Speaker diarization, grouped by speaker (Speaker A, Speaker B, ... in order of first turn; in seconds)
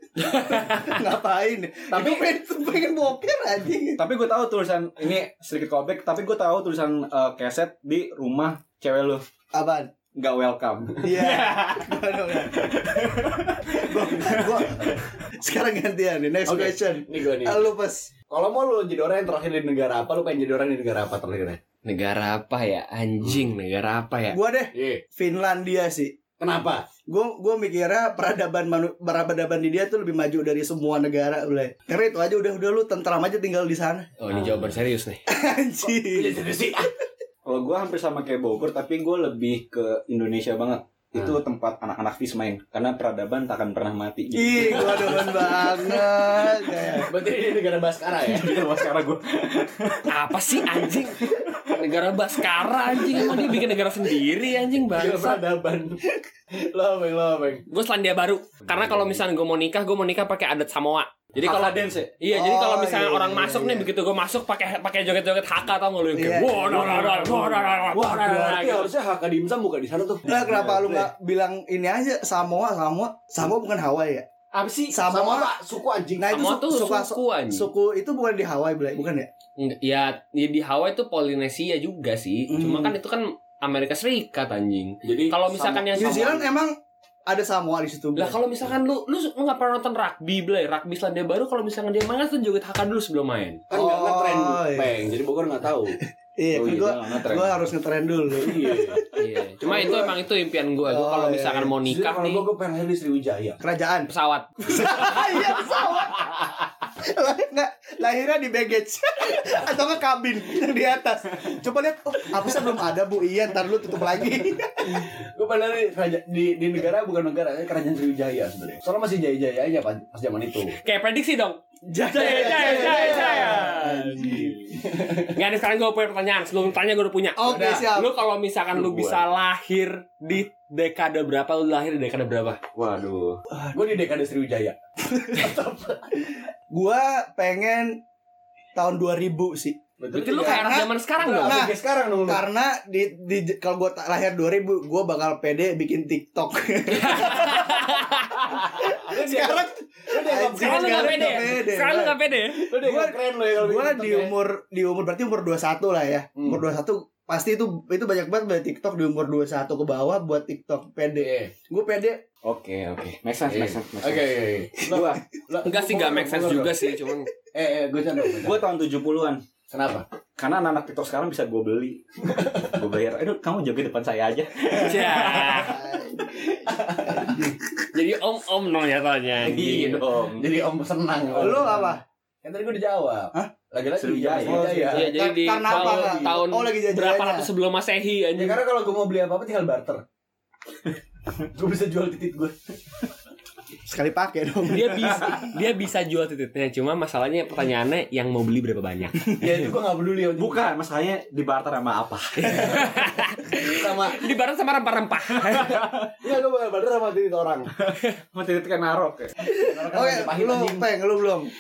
Speaker A: 0.2-1.0, 21.9-24.4, 34.2-35.2, 50.1-55.4, 57.7-68.9, 74.5-75.0, 76.3-77.7, 79.6-86.4, 88.2-93.6, 99.2-102.5, 104.1-104.9, 120.8-121.6, 122.1-124.5, 125.2-132.6, 140.1-141.7, 146.9-148.6, 150.6-152.7, 165.6-167.3, 174.7-175.8, 177.9-180.0, 184.9-188.6, 194.7-199.3, 202.5-205.8
Speaker B: 0.2-4.0, 9.5-9.9, 11.0-13.2, 13.7-18.1, 24.3-26.2, 27.1-34.1, 35.3-36.4, 44.3-47.1, 62.3-63.9, 66.1-67.0, 70.3-74.3, 74.9-75.5, 76.2-79.3, 82.5-83.0, 85.9-86.7, 87.3-88.4, 93.7-94.9, 96.4-100.1, 100.9-101.7, 103.6-104.1, 104.6-115.1, 121.9-124.5, 127.4-128.2, 136.7-138.0, 138.8-139.8, 140.3-152.2, 152.7-162.2, 175.5-176.4, 177.2-177.5, 181.4-182.0, 184.5-187.5, 193.9-195.5, 209.5-211.5
Speaker C: 1.9-2.3, 4.0-9.2, 10.1-14.9, 37.5-45.4, 48.2-50.1, 58.7-59.2, 61.4-62.1, 70.3-71.0, 96.5-97.6, 128.8-129.3, 132.8-133.4, 162.4-165.2, 168.4-169.4, 170.4-172.0, 172.6-175.8, 179.4-180.5, 184.0-185.0, 200.4-203.0, 205.4-206.1, 207.8-209.4
Speaker D: 16.4-17.7, 18.3-21.6, 24.7-25.0, 26.4-26.9, 34.3-34.8, 35.9-36.9, 44.6-46.1, 47.0-48.6, 53.4-53.7, 54.9-57.6, 66.7-71.0, 75.0-76.3, 85.0-86.2, 93.7-96.0, 98.4-99.0, 101.8-103.6, 114.9-120.8, 122.2-123.7, 124.2-125.3, 127.5-127.8, 133.6-136.3, 140.0-142.4, 148.8-151.6, 152.6-154.3, 156.4-156.6, 161.2-161.5, 163.5-167.0, 167.5-168.7, 169.7-170.1, 172.3-172.7, 176.4-177.5, 179.4-186.2, 188.4-190.0, 191.5-192.5, 199.4-200.7, 202.5-202.7, 203.7-204.3, 206.2-207.7, 209.6-210.9